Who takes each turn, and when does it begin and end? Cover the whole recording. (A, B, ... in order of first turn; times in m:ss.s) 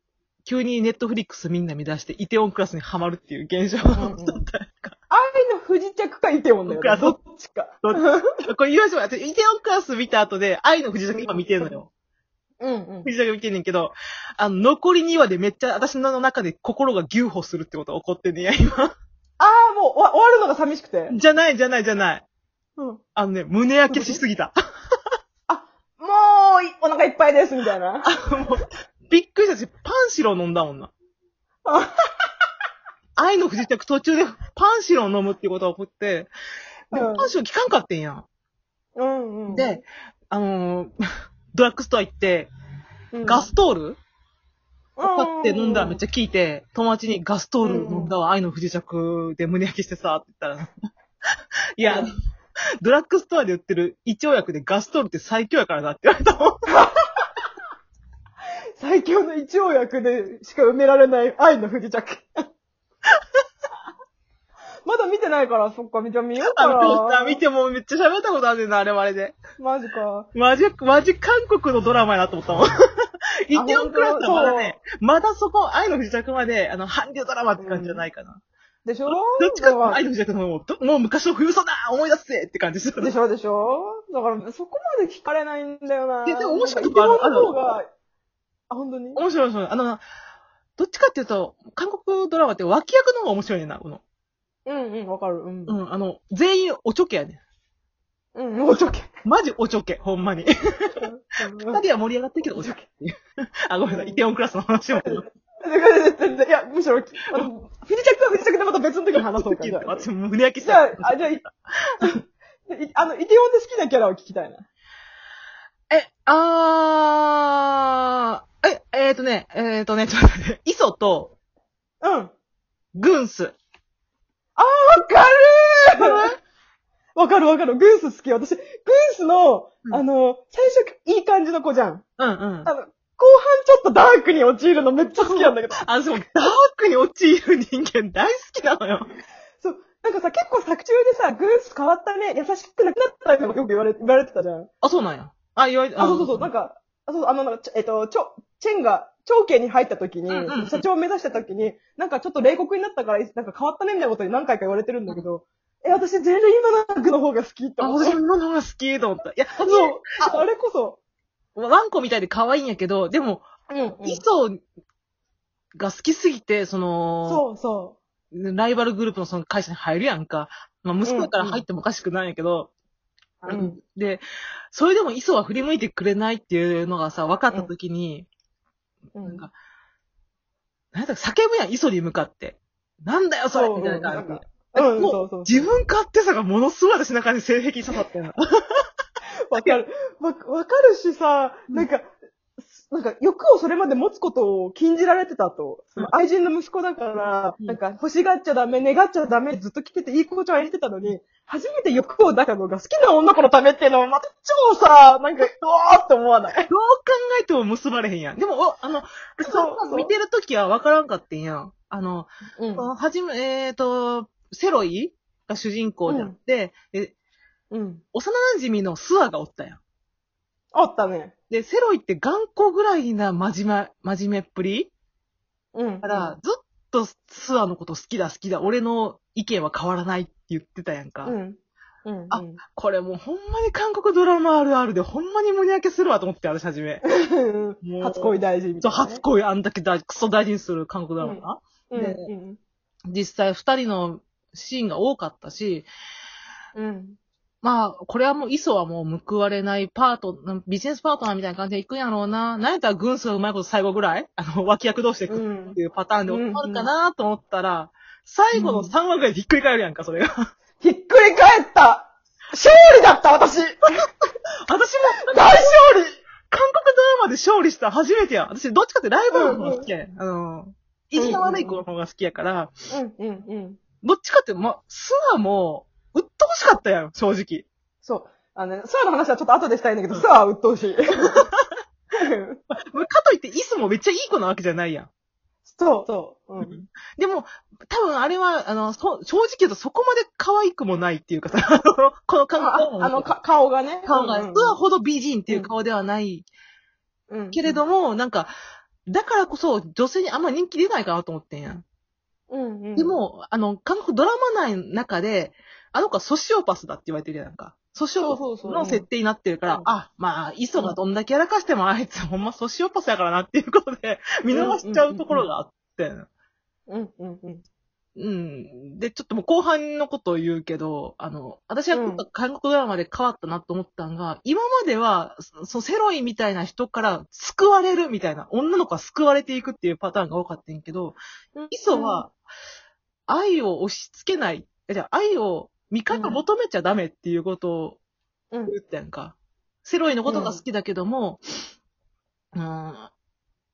0:00.4-0:05.0 A
0:04.0-0:04.4 B
0:05.1-0:08.3 B
0:06.7-0:07.2 A
0:07.8-0:11.9 A
0:12.6-0:13.1 B
0:13.0-0:18.9 A
0:19.4-0:21.1 B
0:21.1-0:22.2 A
0:23.2-0:24.5 A
0:23.9-0:24.2 B
0:25.5-0:28.1 B
0:28.1-0:30.9 A
0:31.6-0:32.3 B
0:33.2-0:36.3 A
0:36.9-0:38.2 A
0:36.9-0:37.3 B
0:39.0-0:39.8 B
0:39.5-0:40.9 A
0:41.5-0:42.5 A
0:43.1-0:43.5 B
0:43.2-0:44.0 A
0:45.0-0:46.0 B
0:45.0-0:50.7 A
0:47.6-0:48.1 B
0:51.8-0:52.1 A
0:52.8-0:56.6 A
0:56.7-0:57.2 B
0:58.8-1:02.4 B
1:04.8-1:07.4 B
1:06.4-1:09.4 A
1:09.6-1:10.3 B
1:10.3-1:12.7 A
1:13.4-1:18.4 A
1:13.6-1:14.8 B
1:17.6-1:18.0 B
1:18.8-1:20.0 B
1:19.1-1:23.1 A
1:23.0-1:27.9 B
1:26.2-1:27.5 A
1:28.7-1:29.2 B
1:29.2-1:30.0 A
1:30.8-1:34.0 A
1:34.7-1:35.8 B
1:35.7-1:37.4 A
1:38.4-1:39.1 B
1:39.2-1:41.0 A
1:41.0-1:41.8 B
1:41.7-1:43.2 A
1:42.5-1:42.8 B
1:43.7-1:45.2 A
1:43.9-1:44.2 B
1:45.0-1:50.1 B
1:49.2-1:52.0 A
1:50.6-1:51.4 B
1:52.0-1:54.6 B
1:55.9-2:01.3 A
2:02.0-2:02.3 B
2:03.0-2:03.6 A
2:04.6-2:06.2 B
2:06.0-2:06.4 A
2:07.2-2:12.0 B
2:12.2-2:12.7 A
2:12.6-2:15.9 B
2:15.2-2:19.1 A
2:19.6-2:24.7 B
2:24.8-2:26.5 A
2:26.0-2:38.2 B
2:30.3-2:30.8 A
2:37.8-2:40.4 A
2:39.6-2:41.0 B
2:41.6-2:43.4 A
2:43.7-2:44.2 B
2:44.0-2:44.6 A
2:45.8-2:47.4 A
2:47.2-2:48.0 B
2:48.3-2:52.7 A
2:51.0-2:51.6 B
2:53.4-2:58.3 A
2:53.4-2:53.8 B
2:59.2-2:59.5 B
2:59.2-2:59.5 A
3:00.9-3:08.8 A
3:03.5-3:05.7 B
3:09.5-3:12.1 B
3:12.6-3:26.7 B
3:26.7-3:37.1 A
3:29.4-3:30.1 B
3:32.6-3:32.9 B
3:36.1-3:36.3 B
3:37.7-3:38.0 B
3:38.1-3:39.8 A
3:40.7-3:41.3 B
3:41.5-3:44.9 A
3:45.8-3:46.4 B
3:46.0-3:51.4 A
3:51.2-3:52.6 B
3:52.3-3:57.0 A
3:57.0-3:59.2 B
3:57.8-4:02.3 A
4:01.2-4:02.6 B
4:03.1-4:05.9 A
4:06.8-4:07.2 B
4:07.6-4:20.3 A
4:15.3-4:16.9 B
4:18.5-4:18.9 B
4:20.8-4:23.8 B
4:24.7-4:25.9 A
4:25.2-4:26.2 B
4:26.5-4:32.7 A
4:29.3-4:29.9 B
4:31.2-4:31.8 B
4:32.9-4:33.8 B
4:34.0-4:37.7 A
4:38.0-4:41.4 B
4:41.4-4:41.7 A
4:42.2-4:42.6 B
4:42.7-4:45.1 A
4:45.7-4:46.7 B
4:46.6-4:53.3 A
4:52.6-4:54.8 B
4:54.0-4:56.5 A
4:57.3-4:57.8 B
4:57.5-4:58.5 A
4:59.1-5:01.8 A
5:02.5-5:03.2 B
5:03.0-5:16.3 A
5:08.2-5:09.1 B
5:14.5-5:15.5 B
5:16.9-5:17.6 B
5:18.2-5:31.2 A
5:21.9-5:22.2 B
5:31.6-5:32.3 B
5:31.7-5:32.3 A
5:33.3-5:38.0 A
5:36.1-5:36.4 B
5:38.7-5:41.4 A
5:40.3-5:40.6 B
5:42.6-5:43.1 A